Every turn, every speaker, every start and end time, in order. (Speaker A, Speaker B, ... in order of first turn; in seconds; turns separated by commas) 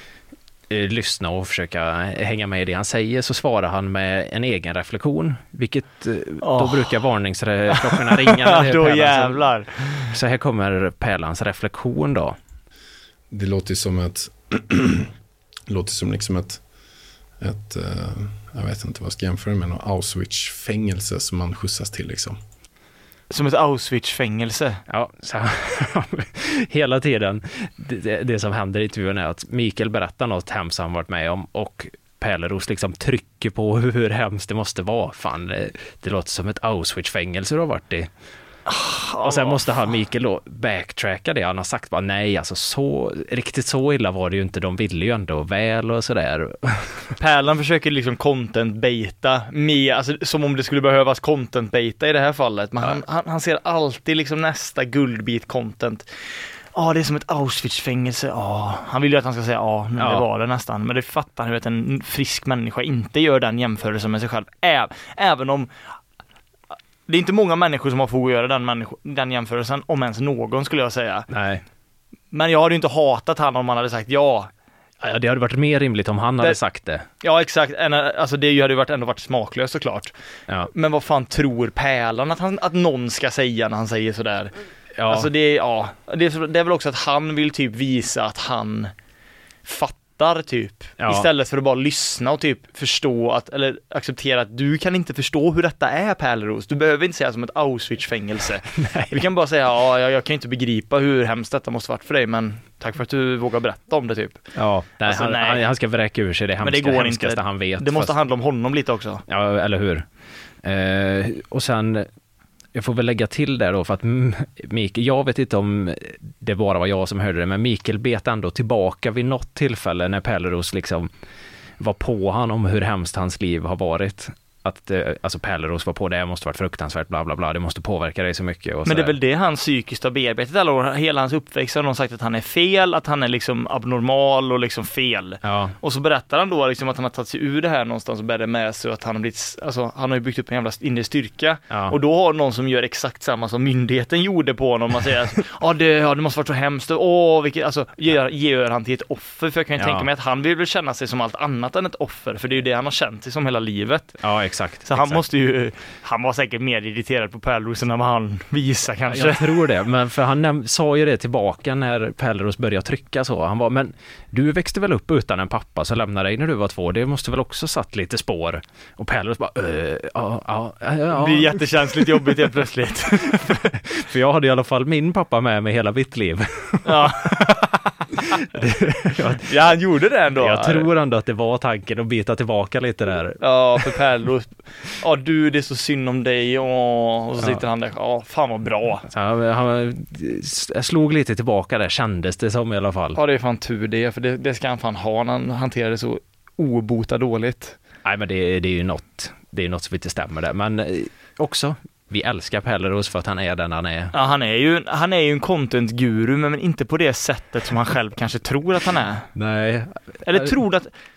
Speaker A: 0.7-9.5, Speaker B: 6.4-7.0, Speaker B: 7.7-10.1, Speaker A: 10.1-12.3, Speaker C: 13.3-15.1, Speaker C: 15.7-16.6, Speaker C: 17.4-22.4, Speaker B: 23.3-24.8, Speaker A: 24.9-38.1, Speaker B: 38.6-39.7, Speaker A: 39.2-47.1, Speaker B: 47.2-65.7, Speaker A: 60.0-60.2, Speaker B: 67.1-71.3, Speaker A: 71.3-71.6, Speaker B: 72.3-74.5, Speaker A: 75.0-77.0, Speaker B: 77.2-80.1, Speaker B: 80.7-84.5, Speaker A: 85.0-85.3, Speaker B: 85.1-88.9, Speaker B: 89.6-104.4, Speaker A: 91.0-91.3, Speaker A: 98.8-99.2, Speaker A: 104.5-108.1, Speaker B: 105.0-105.7, Speaker B: 106.6-109.2, Speaker A: 109.3-110.0, Speaker A: 110.6-112.1, Speaker A: 112.7-121.1, Speaker A: 121.8-129.1, Speaker B: 128.8-154.2, Speaker A: 135.4-135.8, Speaker A: 141.7-142.0, Speaker A: 149.8-150.1, Speaker A: 154.2-155.2, Speaker B: 154.8-159.6, Speaker A: 159.1-172.5, Speaker B: 171.1-173.7, Speaker A: 173.3-179.5, Speaker B: 176.8-178.4, Speaker B: 179.4-180.9, Speaker A: 180.3-183.9, Speaker B: 183.4-189.0, Speaker A: 189.1-193.2, Speaker B: 193.1-197.8, Speaker A: 198.0-204.1, Speaker B: 204.1-209.3, Speaker A: 209.3-210.5, Speaker B: 210.2-210.9